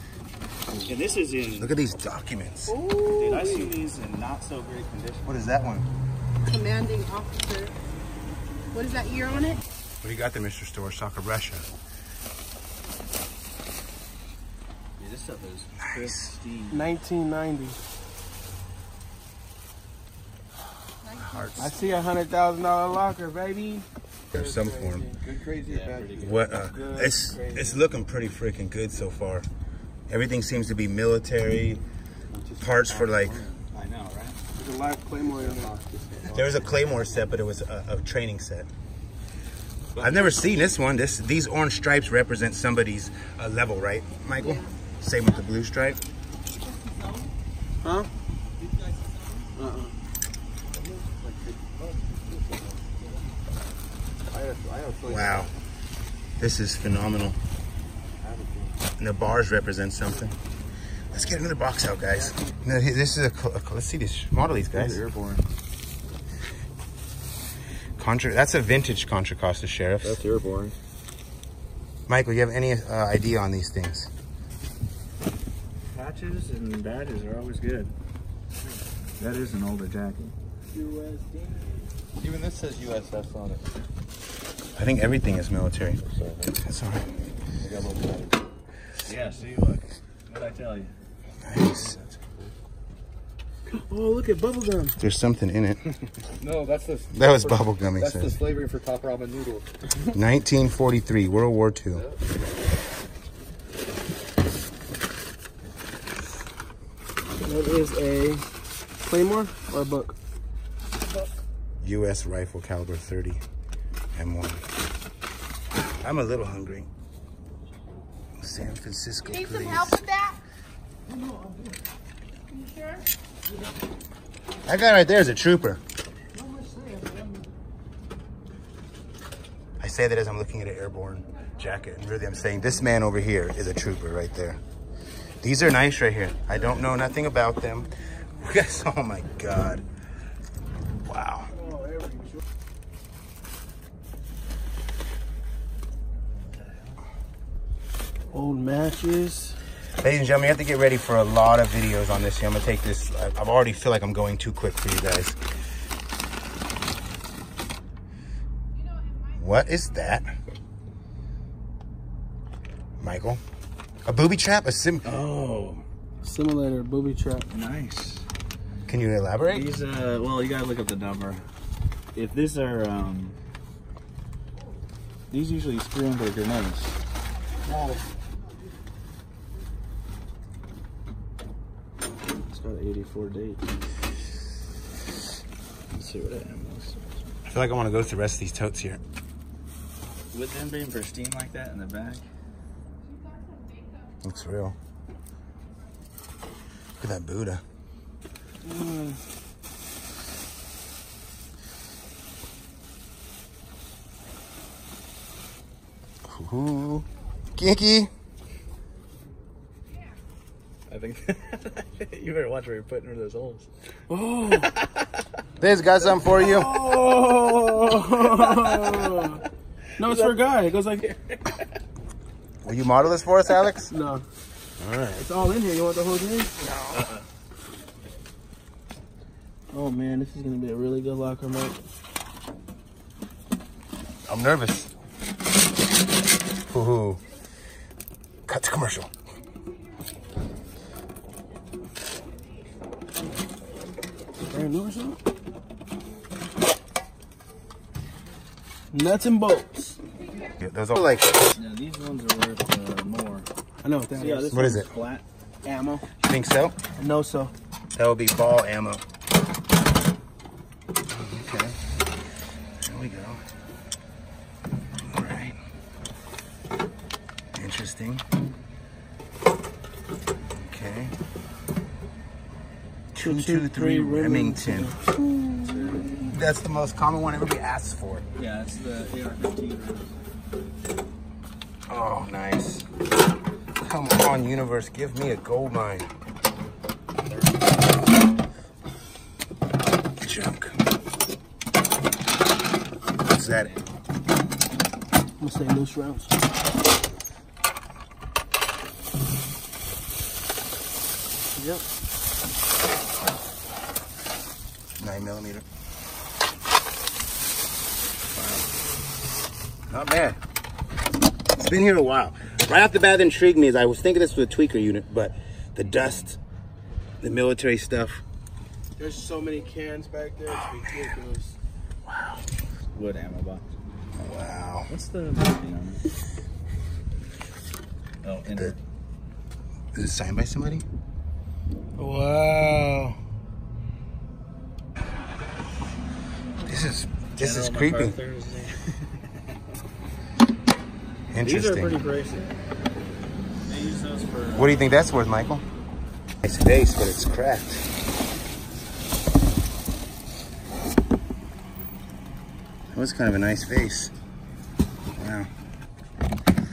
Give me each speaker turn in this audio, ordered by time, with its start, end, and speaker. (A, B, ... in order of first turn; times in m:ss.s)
0:00.9-0:01.7 A
0:01.6-0:02.7 B
0:02.7-0:03.7 C
0:03.1-0:05.3 A
0:05.2-0:05.9 B
0:06.4-0:07.7 D
0:08.7-0:09.6 D
0:10.0-0:11.6 B
0:15.0-0:16.9 A
0:15.8-0:16.3 B
0:16.7-0:17.8 C
0:21.0-0:21.7 D
0:21.2-0:21.7 B
0:21.6-0:25.2 C
0:24.3-0:25.1 B
0:25.2-0:26.3 E
0:25.6-0:27.8 A
0:26.2-0:29.5 B
0:30.1-0:31.8 B
0:32.3-0:33.4 E
0:32.6-0:33.4 B
0:33.1-0:34.4 A
0:34.6-0:35.8 C
0:35.4-0:37.2 E
0:36.3-0:38.7 B
0:40.0-0:40.6 A
0:40.0-0:46.0 B
0:44.4-0:44.7 D
0:47.8-0:48.1 C
0:48.6-0:49.4 E
0:49.6-0:49.9 C
0:50.7-0:53.2 E
0:54.3-0:55.5 E
0:55.1-0:55.5 B
0:56.4-0:57.4 B
0:58.2-0:58.8 E
0:59.0-1:00.4 B
1:01.1-1:05.0 B
1:04.7-1:05.4 A
1:08.0-1:10.2 B
1:10.0-1:10.8 A
1:12.1-1:14.1 B
1:15.9-1:17.9 A
1:19.2-1:20.3 A
1:20.7-1:21.9 C
1:22.2-1:23.7 E
1:24.8-1:26.0 B
1:26.1-1:26.6 E
1:26.6-1:27.1 B
1:27.6-1:28.4 E
1:29.1-1:30.9 A
1:31.4-1:32.0 B
1:33.7-1:35.0 C
1:35.0-1:36.0 B
1:36.4-1:39.7 E
1:37.1-1:38.4 B
1:40.1-1:42.0 B
1:41.9-1:42.2 E
1:47.4-1:48.5 C
1:49.0-1:50.2 C
1:51.8-1:53.4 B
1:54.1-1:54.6 B
1:56.0-1:56.9 B
1:58.4-2:00.0 B
1:59.3-2:00.4 D
2:01.2-2:01.4 E
2:02.5-2:03.0 D
2:04.7-2:05.8 B
2:09.8-2:14.6 B
2:15.4-2:19.8 B
2:21.0-2:21.5 B
2:21.5-2:22.4 C
2:28.3-2:29.6 C
2:30.0-2:35.4 B
2:38.8-2:39.4 D
2:39.4-2:40.3 B
2:43.0-2:43.4 B
2:44.1-2:45.2 B
2:45.0-2:45.8 A
2:46.2-2:47.5 C
2:47.5-2:48.2 A
2:48.9-2:49.7 B
2:49.5-2:51.4 A
2:52.2-2:53.3 A
2:55.3-2:56.9 A
3:02.5-3:03.6 A
3:05.9-3:07.2 A
3:07.4-3:09.0 B
3:10.3-3:12.2 A
3:13.3-3:14.1 D
3:14.2-3:14.8 B
3:17.0-3:17.6 B
3:18.6-3:19.2 C
3:26.3-3:28.1 B
3:30.9-3:33.7 A
3:34.1-3:34.7 C
3:35.6-3:36.7 B
3:36.1-3:39.4 C
3:38.4-3:39.2 A
3:40.0-3:41.2 C
3:40.0-3:40.4 A
3:42.6-3:43.9 B
3:43.9-3:44.2 C
3:44.8-3:45.2 B
3:45.2-3:46.6 C
3:46.6-3:47.0 B
3:46.9-3:47.2 A
3:49.7-3:51.8 C
3:54.3-3:54.9 B
3:56.7-3:57.2 B
3:58.4-3:59.1 B
4:04.5-4:05.2 C
4:08.9-4:10.0 C
4:10.6-4:11.5 B
4:11.5-4:13.5 A
4:13.8-4:14.6 C
4:14.2-4:15.2 A
4:14.5-4:14.9 B
4:15.6-4:16.0 C
4:16.2-4:16.8 B
4:17.0-4:17.5 C
4:17.9-4:19.0 B
4:21.1-4:21.8 B
4:22.8-4:23.4 B
4:25.0-4:25.6 B
4:27.6-4:28.2 B
4:30.6-4:31.2 B
4:33.1-4:38.2 B
4:33.2-4:35.0 C
4:35.6-4:36.3 A
4:38.3-4:40.1 A
4:41.9-4:42.8 B
4:43.8-4:46.1 B
4:50.2-4:50.8 B
4:53.3-4:53.7 B
4:53.4-4:53.8 A
4:55.4-4:56.3 C
5:01.6-5:01.8 C
5:05.0-5:05.6 B
5:08.4-5:08.6 A
5:09.9-5:10.4 B
5:11.5-5:16.4 B
5:16.0-5:16.2 A
5:17.2-5:18.2 B
5:19.0-5:21.6 C
5:22.1-5:22.4 B
5:22.9-5:23.6 A
5:24.2-5:24.9 B
5:24.9-5:26.0 A
5:28.2-5:28.8 A
5:28.5-5:28.8 B
5:29.9-5:30.8 B
5:32.0-5:33.2 C
5:36.6-5:38.2 B
5:37.4-5:39.2 A
5:41.3-5:42.0 B
5:41.4-5:42.5 A
5:43.7-5:44.9 A
5:44.6-5:45.6 B
5:46.4-5:47.9 B
5:52.9-5:54.1 B
5:55.2-5:55.5 B